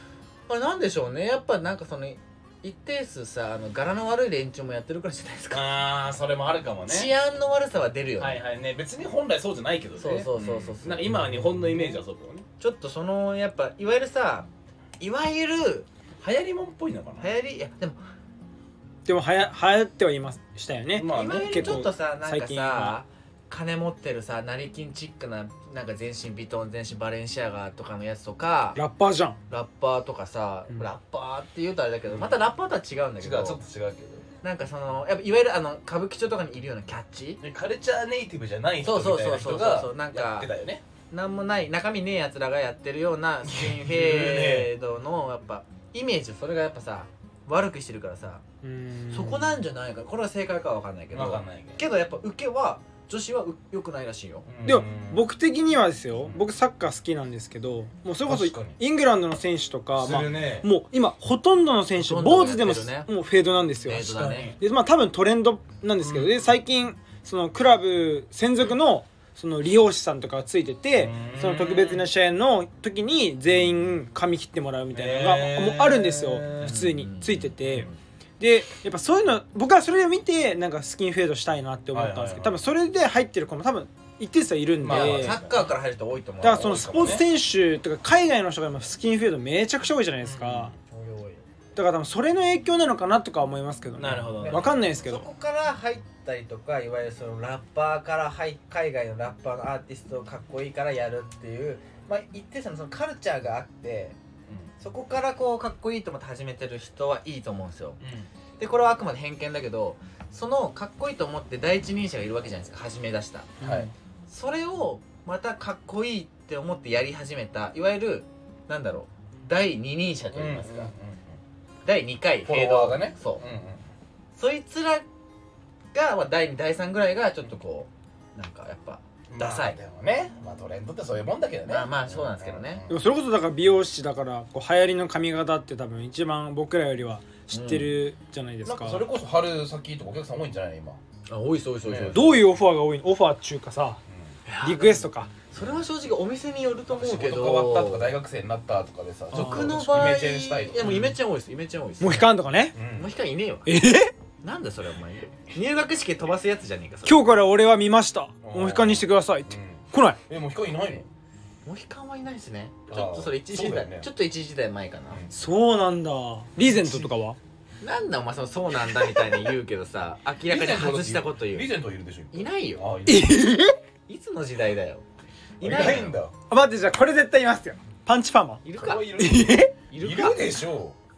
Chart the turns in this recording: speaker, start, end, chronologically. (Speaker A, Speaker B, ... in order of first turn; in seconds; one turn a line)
Speaker A: 0.5-5.7
Speaker B: 5.5-7.1
Speaker A: 6.9-8.4
Speaker B: 8.2-12.4
Speaker A: 10.0-11.2
Speaker A: 12.6-14.5
Speaker A: 15.0-15.9
Speaker B: 16.2-17.3
Speaker A: 17.2-18.0
Speaker C: 19.1-22.9
Speaker B: 20.9-21.9
Speaker A: 21.0-28.8
Speaker C: 28.7-29.4
Speaker A: 29.5-33.6
Speaker B: 32.1-32.4
Speaker B: 33.2-34.3
Speaker A: 34.4-37.4
Speaker B: 37.4-40.8
Speaker A: 38.8-40.5
Speaker A: 41.1-48.4
Speaker B: 43.4-44.7
Speaker C: 48.6-49.5
Speaker A: 49.1-54.5
Speaker B: 51.1-51.8
Speaker B: 54.5-55.2
Speaker C: 54.6-77.9
Speaker B: 58.2-58.8
Speaker B: 60.0-60.7
Speaker A: 61.9-63.1
Speaker A: 63.8-64.5
Speaker B: 63.9-64.6
Speaker B: 66.0-66.4
Speaker B: 71.0-72.1
Speaker B: 74.9-76.8
Speaker A: 76.6-78.0
Speaker C: 78.4-85.4
Speaker B: 81.9-82.6
Speaker B: 84.8-85.7
Speaker A: 84.8-87.0
Speaker C: 86.4-90.7
Speaker B: 86.5-87.2
Speaker B: 90.2-90.8
Speaker A: 90.9-91.4
Speaker C: 91.8-95.3
Speaker B: 94.0-94.7
Speaker A: 94.3-104.2
Speaker A: 104.8-108.0
Speaker B: 108.0-108.3
Speaker A: 108.6-113.7
Speaker C: 113.6-113.9
Speaker B: 113.6-113.9
Speaker A: 114.3-120.9
Speaker B: 120.3-121.4
Speaker A: 121.8-123.4
Speaker B: 122.5-123.8
Speaker A: 124.3-125.0
Speaker A: 125.9-129.8
Speaker B: 129.3-133.0
Speaker A: 131.7-132.8
Speaker C: 132.9-139.0
Speaker A: 137.5-137.9
Speaker B: 138.6-141.0
Speaker A: 141.3-142.4
Speaker B: 141.8-142.2
Speaker C: 142.1-144.0
Speaker A: 144.4-148.2
Speaker C: 144.6-145.3
Speaker B: 145.6-145.8
Speaker B: 146.9-151.2
Speaker C: 149.3-149.7
Speaker A: 149.3-153.7
Speaker C: 152.0-152.8
Speaker B: 152.7-153.1
Speaker C: 153.7-154.1
Speaker A: 154.4-157.3
Speaker C: 157.1-160.2
Speaker B: 158.4-161.1
Speaker A: 161.6-165.2
Speaker B: 162.9-164.1
Speaker C: 165.3-167.4
Speaker B: 166.6-167.1
Speaker A: 167.8-171.7
Speaker B: 168.9-169.3
Speaker B: 170.5-173.4
Speaker A: 172.3-172.8
Speaker C: 173.1-173.8
Speaker A: 174.1-175.0
Speaker A: 175.6-176.2
Speaker B: 175.6-176.3
Speaker C: 176.5-178.6
Speaker A: 178.6-179.3
Speaker B: 178.8-180.9
Speaker C: 179.2-179.7
Speaker A: 179.9-180.6